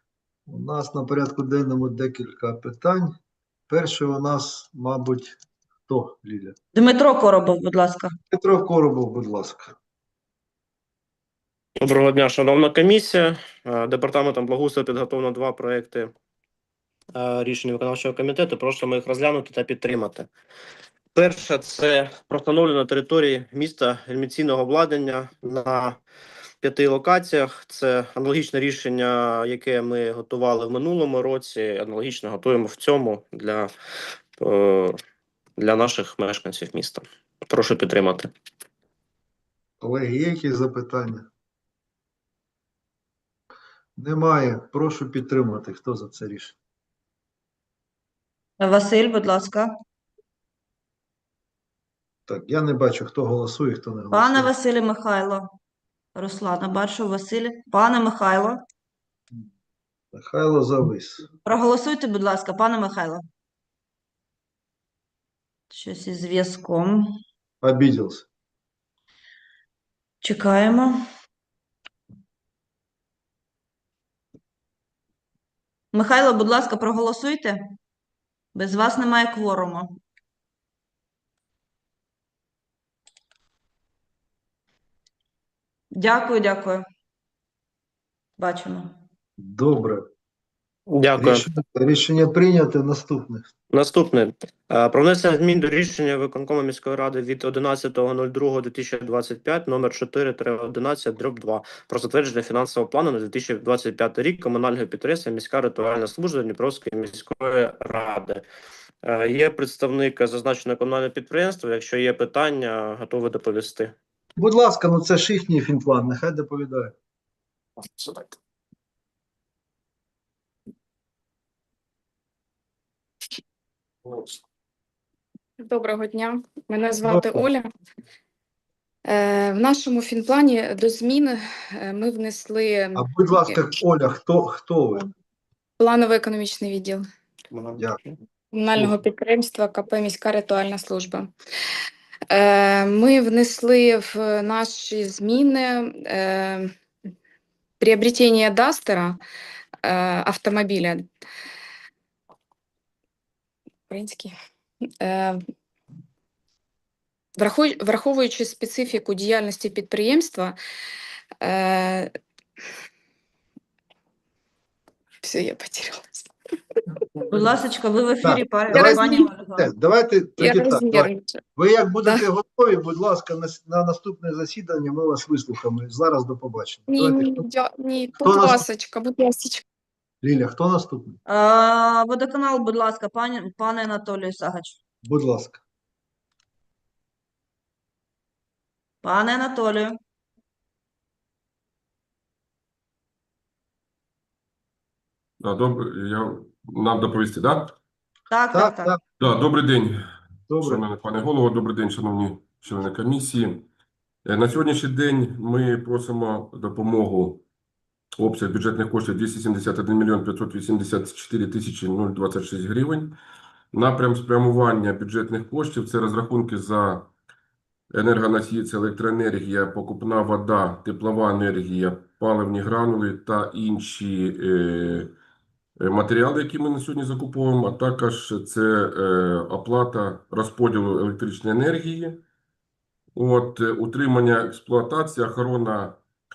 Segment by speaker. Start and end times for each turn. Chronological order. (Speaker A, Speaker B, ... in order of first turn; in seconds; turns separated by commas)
Speaker A: 0.5-3.1, Speaker A: 3.7-6.5, Speaker B: 6.7-8.1, Speaker A: 8.3-9.8, Speaker C: 11.8-16.1, Speaker C: 17.1-20.3, Speaker C: 21.1-26.0, Speaker C: 26.6-33.7, Speaker C: 34.4-35.0, Speaker C: 35.6-38.3, Speaker A: 39.8-41.3, Speaker A: 44.0-46.6, Speaker B: 48.6-49.7, Speaker A: 52.3-54.5, Speaker B: 54.1-55.5, Speaker B: 56.1-58.6, Speaker A: 60.1-61.3, Speaker B: 61.4-63.2, Speaker B: 65.7-67.1, Speaker A: 67.6-68.3, Speaker B: 70.2-71.0, Speaker B: 75.9-77.6, Speaker B: 78.5-79.9, Speaker B: 85.9-86.8, Speaker B: 88.4-88.9, Speaker A: 89.4-90.0, Speaker C: 90.9-91.5, Speaker A: 91.2-93.5, Speaker C: 93.7-108.4, Speaker C: 109.0-113.9, Speaker A: 114.4-116.9, Speaker D: 125.6-127.7, Speaker A: 127.0-127.4, Speaker D: 129.1-133.8, Speaker A: 132.9-135.1, Speaker D: 135.8-137.0, Speaker D: 138.5-141.3, Speaker D: 142.3-146.7, Speaker D: 147.8-149.2, Speaker D: 149.8-151.0, Speaker D: 153.9-154.3, Speaker D: 155.0-155.4, Speaker D: 157.4-160.5, Speaker D: 161.4-162.1, Speaker D: 165.2-166.3, Speaker B: 167.3-169.7, Speaker A: 168.2-177.4, Speaker D: 168.7-169.3, Speaker D: 170.4-171.4, Speaker D: 176.9-179.6, Speaker A: 178.2-178.6, Speaker A: 180.2-181.2, Speaker B: 181.3-184.8, Speaker A: 185.0-185.6, Speaker B: 189.0-189.9, Speaker E: 195.4-197.7, Speaker B: 198.3-198.9, Speaker A: 198.5-198.9, Speaker E: 199.2-200.0, Speaker A: 200.5-200.8, Speaker E: 200.7-203.7, Speaker E: 204.3-207.4, Speaker E: 208.2-213.2, Speaker E: 213.7-217.1, Speaker E: 217.9-225.1, Speaker E: 225.8-232.2, Speaker E: 233.2-236.0